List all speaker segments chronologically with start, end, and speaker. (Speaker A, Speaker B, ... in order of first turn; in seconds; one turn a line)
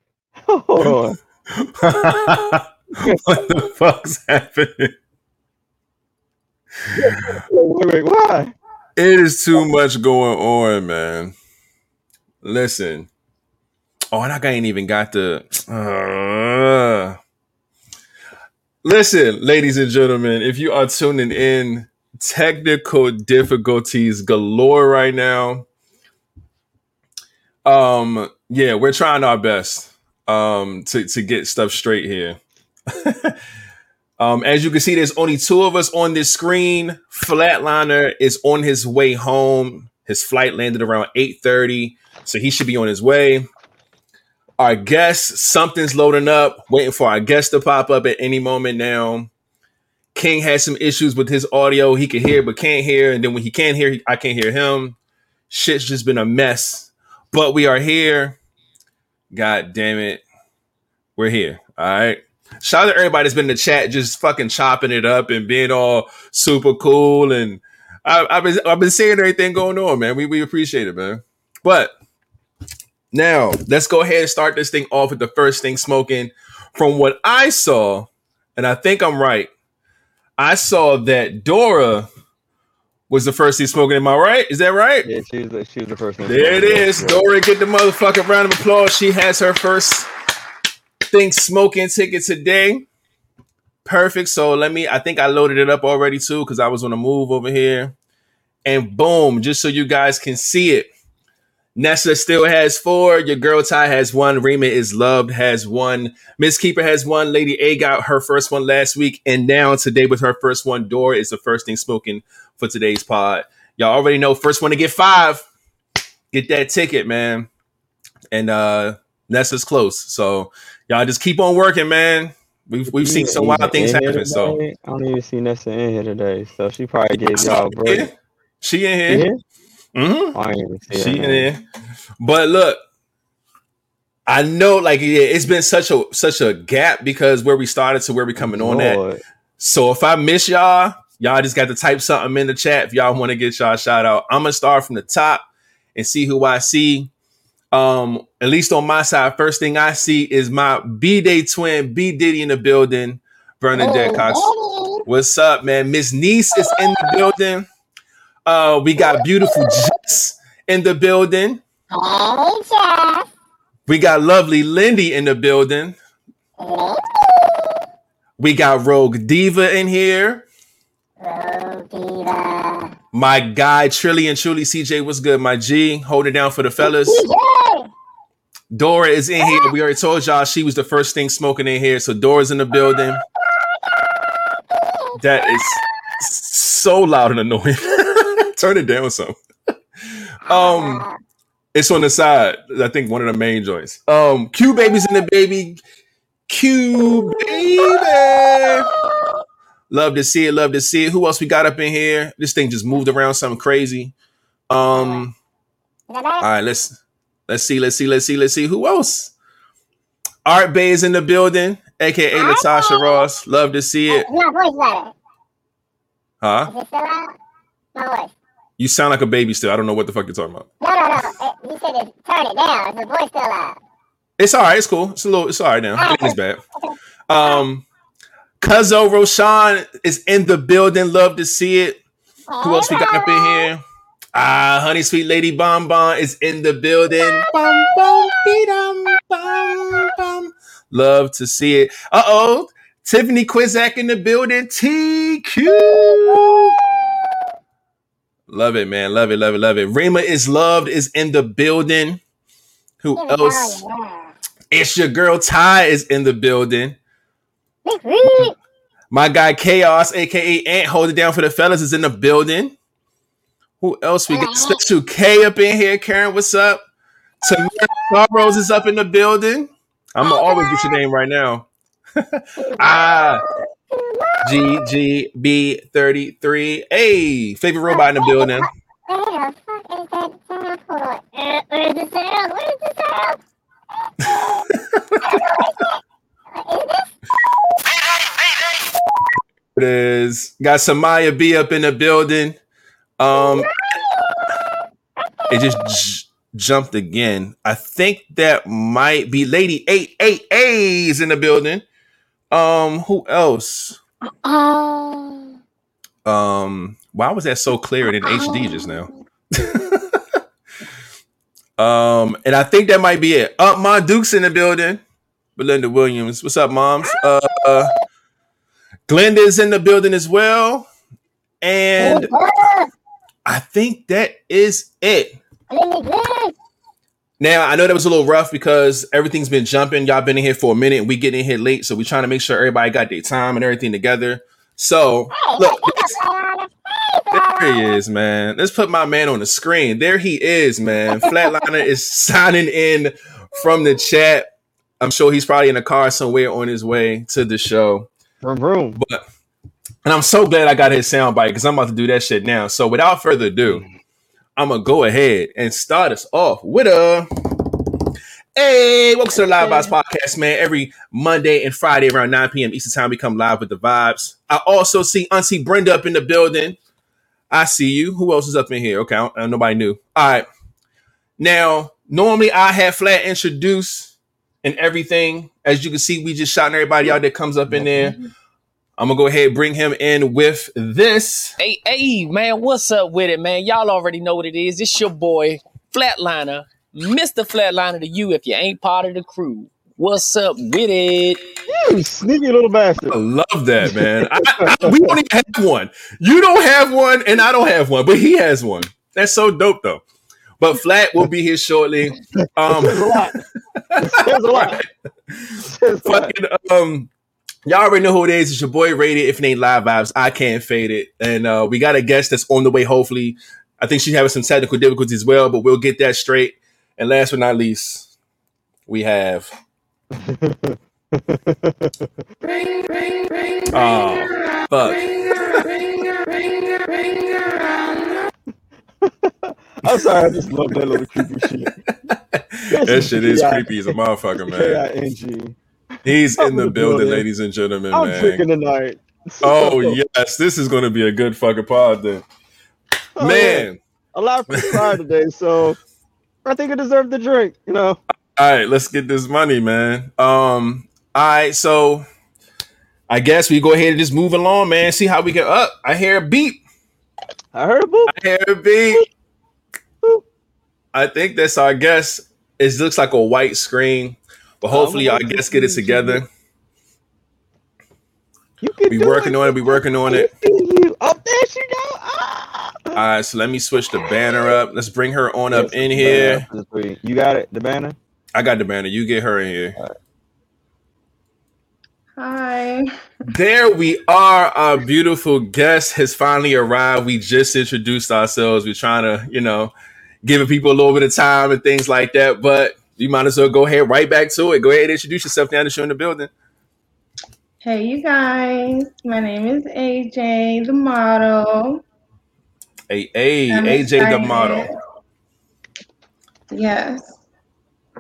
Speaker A: 0.5-1.2
Speaker B: 1.5-4.9
Speaker A: 2.0-2.4
Speaker A: 3.0-3.2
Speaker A: 6.9-8.5
Speaker B: 9.0-11.3
Speaker B: 12.4-13.1
Speaker B: 14.1-17.2
Speaker B: 18.8-25.7
Speaker B: 27.6-33.4
Speaker B: 34.2-43.5
Speaker B: 44.6-49.3
Speaker B: 50.1-55.0
Speaker B: 55.5-58.4
Speaker B: 59.3-60.2
Speaker B: 61.2-71.9
Speaker B: 73.1-79.5
Speaker B: 80.4-82.1
Speaker B: 83.1-85.1
Speaker A: 85.0-87.2
Speaker B: 86.3-90.1
Speaker B: 91.1-92.9
Speaker B: 93.8-98.0
Speaker B: 98.7-100.9
Speaker B: 101.8-115.4
Speaker B: 116.3-117.5
Speaker B: 118.3-124.6
Speaker A: 122.9-128.1
Speaker B: 127.3-129.3
Speaker A: 129.1-129.4
Speaker B: 129.9-130.3
Speaker A: 130.3-131.5
Speaker B: 130.9-131.6
Speaker B: 132.2-132.8
Speaker B: 134.3-139.0
Speaker A: 138.4-139.2
Speaker B: 139.6-147.1
Speaker B: 147.7-154.5
Speaker C: 153.8-155.0
Speaker B: 155.1-157.7
Speaker C: 156.6-157.3
Speaker B: 158.5-161.6
Speaker C: 159.0-160.0
Speaker C: 161.9-163.2
Speaker B: 163.9-166.0
Speaker C: 166.6-167.8
Speaker B: 168.4-170.5
Speaker C: 171.2-172.9
Speaker B: 173.1-177.2
Speaker C: 176.8-177.9
Speaker B: 178.7-183.2
Speaker C: 179.4-179.7
Speaker C: 183.8-185.7
Speaker B: 185.2-189.3
Speaker B: 190.2-191.0
Speaker C: 190.6-191.2
Speaker B: 191.7-195.8
Speaker B: 196.5-198.9
Speaker C: 197.1-199.3
Speaker B: 199.9-204.1
Speaker B: 204.7-205.3
Speaker C: 204.9-205.2
Speaker C: 206.1-206.5
Speaker B: 206.4-209.3
Speaker B: 210.5-214.3
Speaker C: 212.3-213.3
Speaker C: 214.1-215.1
Speaker B: 216.4-216.7
Speaker C: 216.7-217.3
Speaker C: 218.0-218.3
Speaker B: 218.8-220.7
Speaker C: 220.8-223.8
Speaker B: 224.4-226.6
Speaker C: 226.0-227.6
Speaker B: 227.3-227.9
Speaker B: 228.6-232.0
Speaker C: 232.5-233.7
Speaker B: 232.6-233.8
Speaker B: 234.3-246.8
Speaker C: 237.2-238.1
Speaker C: 245.7-247.3
Speaker B: 248.5-252.2
Speaker B: 253.0-253.8
Speaker C: 253.2-254.2
Speaker B: 254.7-257.0
Speaker C: 257.9-258.6
Speaker B: 259.1-262.8
Speaker B: 263.8-266.9
Speaker C: 264.3-264.8
Speaker B: 267.4-273.4
Speaker C: 267.5-268.6
Speaker C: 270.2-271.0
Speaker C: 272.6-274.9
Speaker B: 274.4-278.7
Speaker C: 277.9-283.4
Speaker C: 284.1-284.7
Speaker B: 284.7-285.4
Speaker C: 285.2-285.9
Speaker C: 286.6-287.1
Speaker B: 289.8-292.6
Speaker B: 293.2-293.7
Speaker C: 293.3-294.7
Speaker C: 295.2-296.0
Speaker B: 295.5-301.9
Speaker B: 302.5-304.0
Speaker C: 304.4-305.5
Speaker B: 306.2-310.4
Speaker C: 308.2-309.1
Speaker B: 311.8-315.0
Speaker B: 315.6-317.9
Speaker B: 319.1-320.9
Speaker B: 321.6-322.3
Speaker C: 322.0-322.9
Speaker B: 323.5-325.4
Speaker C: 325.7-326.5
Speaker B: 327.4-336.2
Speaker C: 335.3-338.0
Speaker B: 337.3-344.5
Speaker C: 341.2-341.6
Speaker B: 345.0-348.1
Speaker A: 348.4-349.0
Speaker B: 349.0-349.2
Speaker B: 350.1-353.9
Speaker B: 354.6-357.3
Speaker B: 358.6-366.8
Speaker B: 367.5-370.5
Speaker B: 371.4-378.2
Speaker B: 379.0-381.6
Speaker D: 381.6-391.5
Speaker A: 391.7-393.2
Speaker B: 393.1-400.0
Speaker A: 393.8-395.0
Speaker B: 400.6-404.9
Speaker A: 402.7-403.4
Speaker A: 404.0-404.8
Speaker B: 405.4-407.1
Speaker A: 405.6-406.3
Speaker B: 407.7-418.1
Speaker B: 418.9-419.5
Speaker A: 420.2-422.1
Speaker E: 422.4-428.1
Speaker B: 423.7-425.1
Speaker A: 429.1-431.7
Speaker B: 430.7-431.2
Speaker B: 432.1-434.9
Speaker A: 432.7-435.6
Speaker B: 436.1-438.4
Speaker A: 436.4-437.3
Speaker A: 437.9-440.0
Speaker B: 439.4-442.3
Speaker A: 443.2-445.8
Speaker B: 443.2-443.8
Speaker B: 444.5-445.0
Speaker A: 446.4-448.0
Speaker B: 448.4-452.1
Speaker B: 453.1-456.6
Speaker A: 457.5-458.2
Speaker B: 458.1-459.0
Speaker B: 460.9-466.3
Speaker A: 464.7-466.2
Speaker A: 468.6-473.0
Speaker B: 468.9-470.3
Speaker B: 472.9-476.4
Speaker A: 475.5-478.0
Speaker B: 478.3-479.8
Speaker E: 482.2-482.9
Speaker B: 483.3-489.7
Speaker B: 490.2-496.3
Speaker E: 497.6-501.8
Speaker B: 502.9-504.7
Speaker E: 503.5-504.7
Speaker E: 506.5-507.2